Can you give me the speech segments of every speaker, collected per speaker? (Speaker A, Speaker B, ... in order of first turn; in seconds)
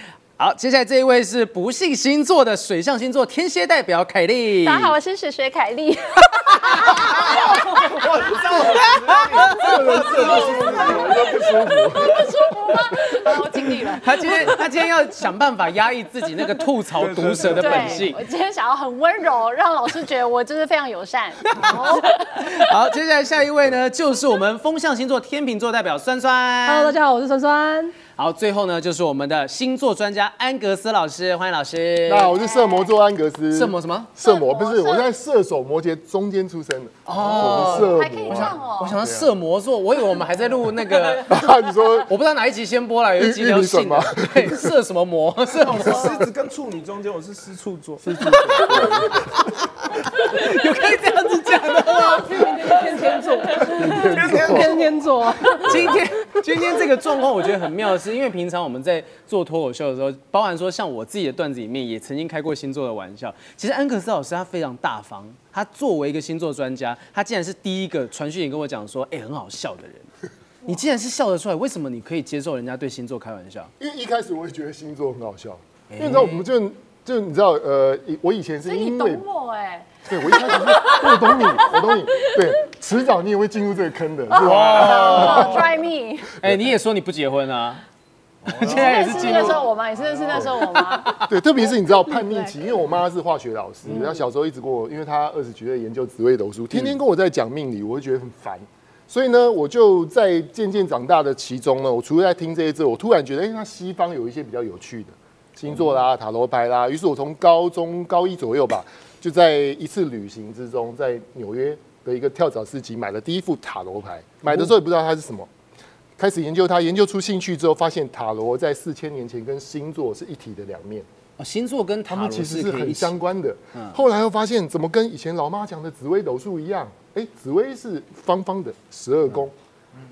Speaker A: 0.4-5.0, 14.0-18.2, 21.7-27.0, 28.2-32.4, 33.5-34.1, 37.1-41.4, 42.1-46.2, 48.7-53.0, 55.6-70.1, 70.6-73.7, 75.9-76.5, 84.5-85.6, 86.4-87.8, 88.5-89.7, 121.4-123.2
Speaker B: 4.6-8.8, 9.5-14.6, 17.4-22.5, 32.6-32.9, 34.2-35.0, 37.3-39.0, 78.7-82.5, 84.3-86.3, 88.6-91.2
Speaker C: 6.7-11.2, 16.9-18.1, 45.8-48.0, 54.0-54.8, 84.5-85.5, 88.5-89.4, 90.1-90.5
Speaker D: 9.6-12.3, 32.1-39.3, 41.3-42.1, 43.2-44.7, 48.0-49.3, 53.7-54.8, 73.8-79.2, 80.1-85.7, 89.1-89.6, 91.2-115.5, 116.2-121.1, 122.1-129.5
Speaker E: 21.6-22.1, 26.7-27.9, 51.9-56.0